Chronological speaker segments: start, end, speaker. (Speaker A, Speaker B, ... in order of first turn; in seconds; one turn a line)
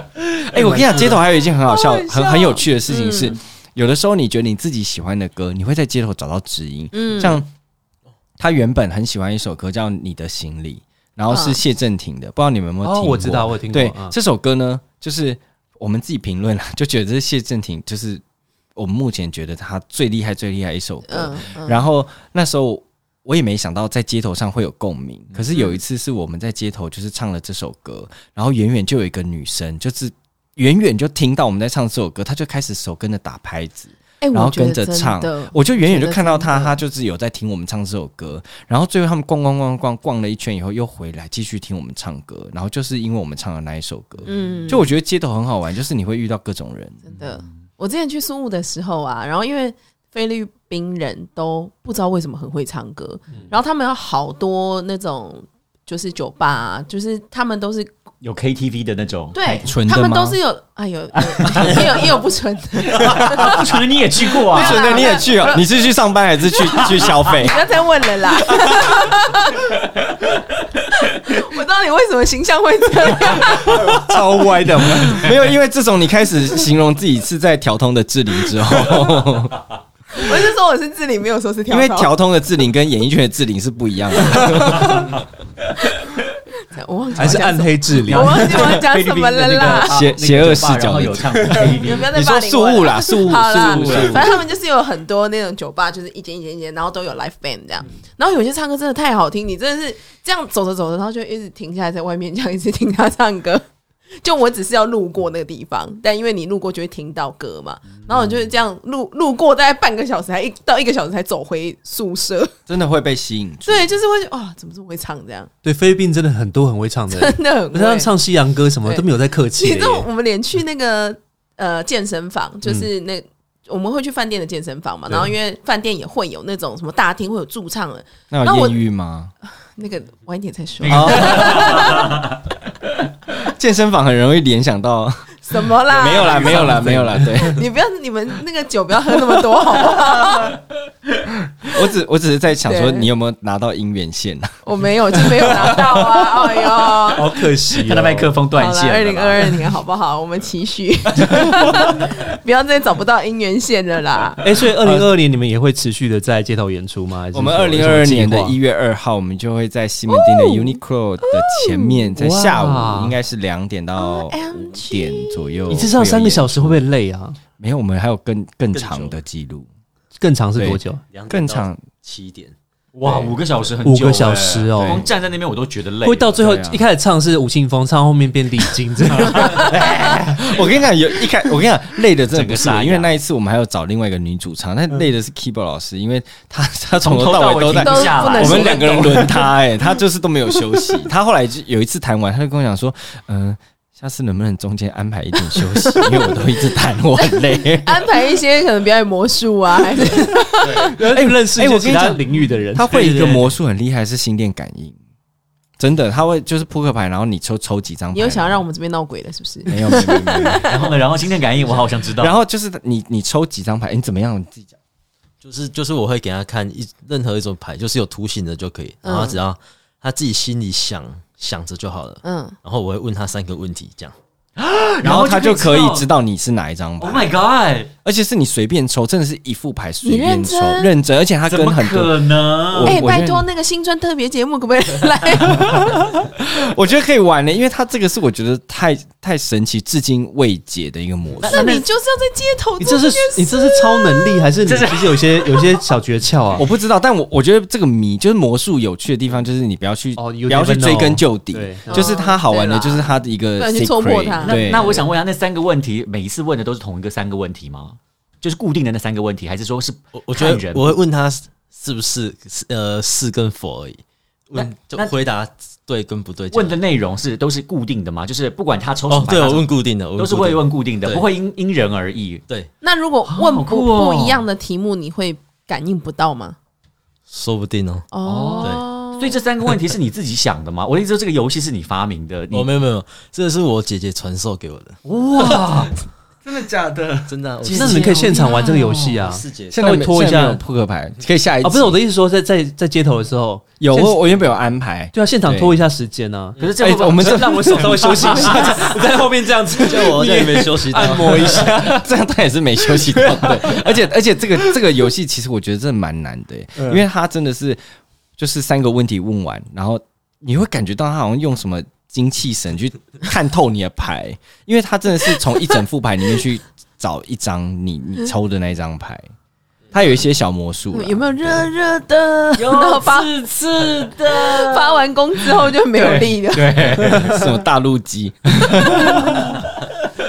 Speaker A: 0.4-7.5
Speaker B: 0.6-1.2
Speaker C: 1.6-3.4
Speaker C: 6.9-7.4
Speaker A: 8.4-18.2
Speaker C: 11.3-11.6
Speaker B: 12.8-14.2
Speaker A: 18.8-47.0
Speaker C: 21.1-21.8
Speaker C: 25.5-25.8
Speaker C: 34.2-36.8
Speaker C: 44.3-44.9
Speaker C: 47.1-57.9
Speaker D: 58.2-59.7
Speaker C: 59.3-63.7
Speaker A: 59.6-60.4
Speaker D: 61.2-62.1
Speaker D: 62.9-65.2
Speaker C: 64.4-65.6
Speaker A: 64.5-67.7
Speaker C: 66.7-69.8
Speaker D: 66.7-67.3
Speaker A: 68.7-68.9
Speaker C: 71.0-74.0
Speaker B: 73.6-75.3
Speaker A: 74.8-79.6
Speaker C: 80.1-82.1
Speaker A: 81.7-85.2
Speaker C: 86.7-90.1
Speaker B: 87.2-88.5
Speaker D: 88.1-92.1
Speaker A: 89.8-94.4
Speaker C: 91.8-103.7
Speaker D: 93.5-94.4
Speaker C: 104.2-112.5
Speaker A: 112.7-113.9
Speaker C: 113.7-115.5
Speaker B: 115.6-120.1
Speaker C: 117.1-118.1
Speaker C: 119.6-128.8
Speaker A: 128.3-129.3
Speaker C: 129.7-132.2
Speaker D: 130.8-132.4
Speaker A: 130.9-131.9
Speaker A: 133.4-137.7
Speaker C: 135.4-140.6
Speaker D: 136.0-136.9
Speaker B: 136.6-137.4
Speaker A: 141.6-144.6
Speaker C: 142.7-143.1
Speaker C: 144.7-147.4
Speaker A: 145.1-146.5
Speaker B: 147.1-148.3
Speaker D: 147.8-149.6
Speaker C: 148.6-154.4
Speaker A: 151.3-151.7
Speaker B: 154.4-158.6
Speaker A: 154.8-155.1
Speaker A: 157.3-166.8
Speaker C: 160.1-160.8
Speaker C: 161.3-162.1
Speaker B: 162.2-163.2
Speaker C: 164.0-165.8
Speaker B: 165.7-167.4
Speaker A: 167.6-169.7
Speaker E: 168.7-169.2
Speaker B: 170.2-171.0
Speaker A: 170.6-171.9
Speaker E: 171.1-172.6
Speaker D: 172.9-176.3
Speaker A: 173.0-173.4
Speaker B: 173.8-175.1
Speaker B: 176.0-179.6
Speaker A: 176.4-176.8
Speaker D: 179.5-180.5
Speaker A: 179.5-198.1
Speaker D: 182.3-183.1
Speaker D: 187.0-189.5
Speaker C: 187.7-189.4
Speaker C: 195.5-196.3
Speaker C: 197.2-200.9
Speaker A: 200.6-202.2
Speaker B: 200.8-203.5
Speaker A: 202.7-205.0
Speaker A: 205.8-208.6
Speaker C: 208.1-210.7
Speaker A: 209.7-210.7
Speaker D: 210.6-212.4
Speaker A: 212.2-214.7
Speaker E: 215.4-224.1
Speaker C: 219.0-219.4
Speaker C: 222.2-222.6
Speaker D: 224.6-226.1
Speaker A: 225.0-227.3
Speaker D: 227.0-227.9
Speaker A: 228.0-233.5
Speaker C: 230.0-230.9
Speaker D: 231.5-233.1
Speaker C: 232.8-236.1
Speaker A: 235.5-241.7
Speaker D: 241.4-241.9
Speaker C: 241.5-244.5
Speaker B: 242.8-246.7
Speaker D: 244.7-245.4
Speaker A: 246.6-255.0
Speaker B: 250.2-252.1
Speaker C: 251.9-255.0
Speaker D: 254.4-261.0
Speaker E: 260.1-266.8
Speaker D: 264.6-265.1
Speaker D: 266.5-272.4
Speaker E: 269.1-271.2
Speaker C: 272.8-276.6
Speaker D: 273.3-274.4
Speaker E: 277.3-278.1
Speaker C: 278.1-279.4
Speaker D: 278.2-282.7
Speaker E: 282.5-285.0
Speaker D: 285.1-286.0
Speaker A: 286.5-287.2
Speaker E: 287.3-288.3
Speaker D: 287.6-289.2
Speaker B: 287.7-290.6
Speaker E: 289.2-289.8
Speaker A: 289.7-292.0
Speaker B: 291.6-294.4
Speaker A: 293.8-295.8
Speaker B: 295.1-296.6
Speaker E: 296.6-296.9
Speaker D: 296.6-298.7
Speaker A: 296.8-298.9
Speaker B: 297.2-302.1
Speaker E: 299.8-301.7
Speaker A: 301.0-307.8
Speaker B: 302.9-303.9
Speaker B: 306.8-307.0
Speaker A: 308.4-319.3
Speaker A: 319.9-321.7
Speaker C: 320.9-323.3
Speaker D: 322.6-327.5
Speaker C: 324.3-327.0
Speaker A: 327.0-329.5
Speaker C: 329.1-329.4
Speaker D: 329.2-329.7